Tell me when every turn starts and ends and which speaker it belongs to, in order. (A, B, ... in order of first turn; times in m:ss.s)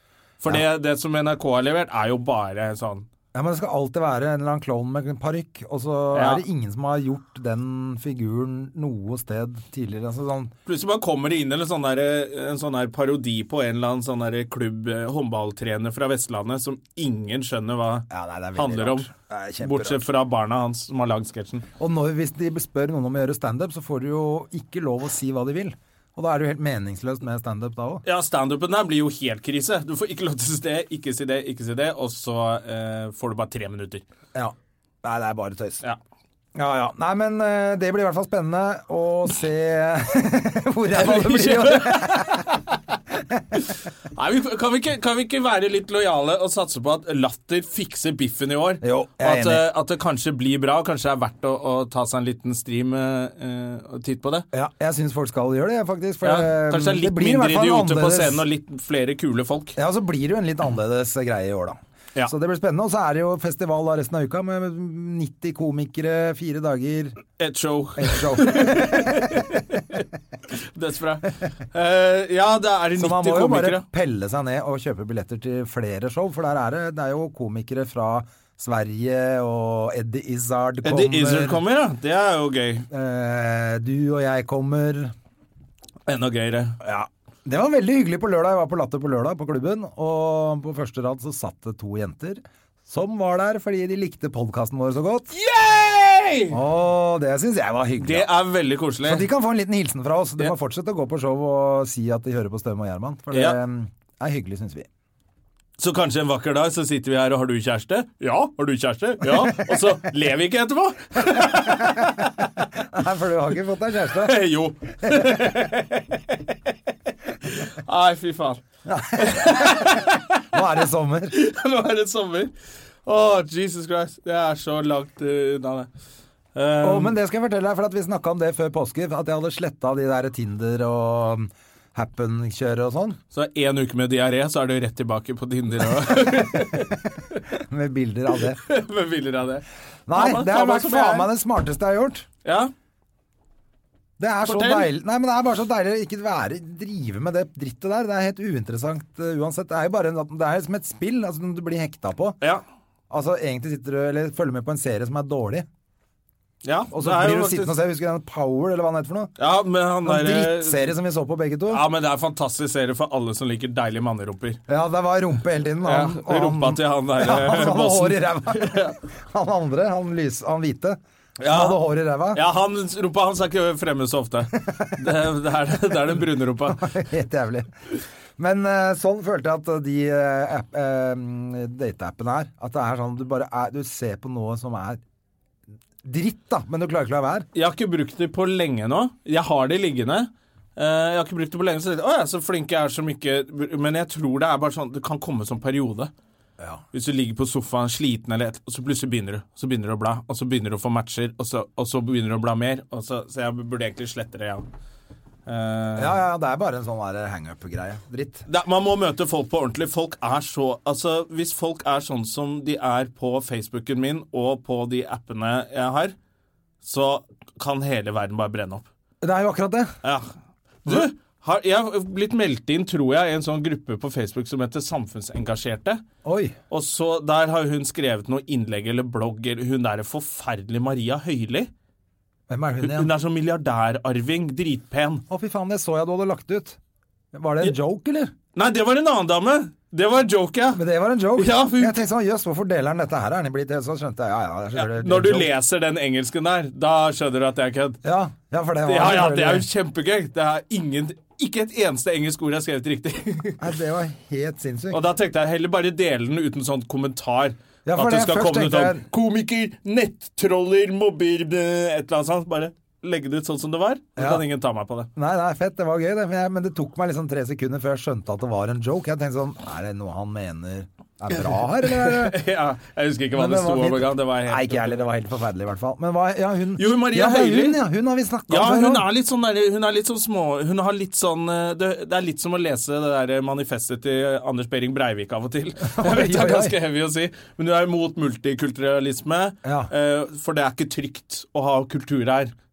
0:00.4-0:03.1 A
0:03.3-0:10.5 B
0:06.1-0:06.4 A
0:10.6-0:19.1 A
0:18.1-0:20.1 B
0:19.6-0:21.6 A
0:21.8-0:28.0 B
0:28.0-0:34.0 A
0:34.3-0:35.8 B
0:36.5-0:42.4 B
0:40.9-0:42.7 A
0:43.6-0:54.4 A
0:48.8-0:49.7 B
0:54.5-0:58.4 B
0:56.2-0:59.7 A
0:59.8-1:07.2 B
1:07.4-1:13.8 A
1:08.0-1:09.5 B
1:13.0-1:21.6 B
1:20.8-1:22.8 A
1:22.9-1:25.1 B
1:26.1-1:26.8 A
1:26.8-1:35.3 B
1:35.3-1:36.6 A
1:36.5-1:38.3 B
1:38.0-1:39.2 A
1:39.0-1:44.9 B
1:43.3-1:43.6 A
1:45.8-1:52.1 A
1:51.4-1:52.3 B
1:52.8-1:54.3 B
1:54.2-1:56.2 A
1:57.4-1:58.6 A
1:58.8-2:01.3 B
1:59.2-2:00.4 A
2:01.3-2:02.5 A
2:03.0-2:05.9 A
2:06.5-2:07.2 A
2:06.8-2:13.2 B
2:13.3-2:17.0 A
2:17.5-2:18.6 B
2:18.6-2:21.3 A
2:20.1-2:22.2 B
2:22.4-2:22.7 A
2:24.2-2:32.4 B
2:24.4-2:24.9 A
2:33.1-2:35.6 B
2:36.6-2:37.7 A
2:36.9-2:39.3 B
2:39.4-2:40.8 A
2:40.0-2:41.8 B
2:41.7-2:44.6 A
2:44.7-2:52.4 B
2:45.8-2:48.9 A
2:51.4-2:51.8 A
2:52.3-2:56.8 A
2:56.7-2:57.7 B
2:58.4-3:05.0 B
3:06.0-3:07.5 B
3:07.5-3:16.1 A
3:16.9-3:24.6 A
3:25.4-3:26.2 A
3:26.0-3:28.4 B
3:28.5-3:36.1 A
3:36.8-3:38.8 A
3:39.2-3:39.9 B
3:40.0-3:40.3 A
3:40.8-3:46.0 A
3:46.2-3:46.6 B
3:46.7-3:51.7 A
3:52.5-3:53.1 B
3:52.8-3:55.2 A
3:55.3-3:56.8 B
3:57.3-3:58.3 B
3:58.5-4:00.8 A
4:00.8-4:05.5 B
4:01.4-4:02.0 A
4:04.7-4:08.0 A
4:08.0-4:09.6 B
4:08.8-4:13.6 A
4:13.6-4:15.0 B
4:14.9-4:25.1 A
4:17.8-4:19.0 B
4:24.2-4:24.4 B
4:25.2-4:32.4 B
4:31.8-4:35.0 A
4:33.3-4:39.0 B
4:36.8-4:37.8 A
4:38.5-4:52.5 A
4:45.8-4:46.7 B
4:49.6-4:49.9 B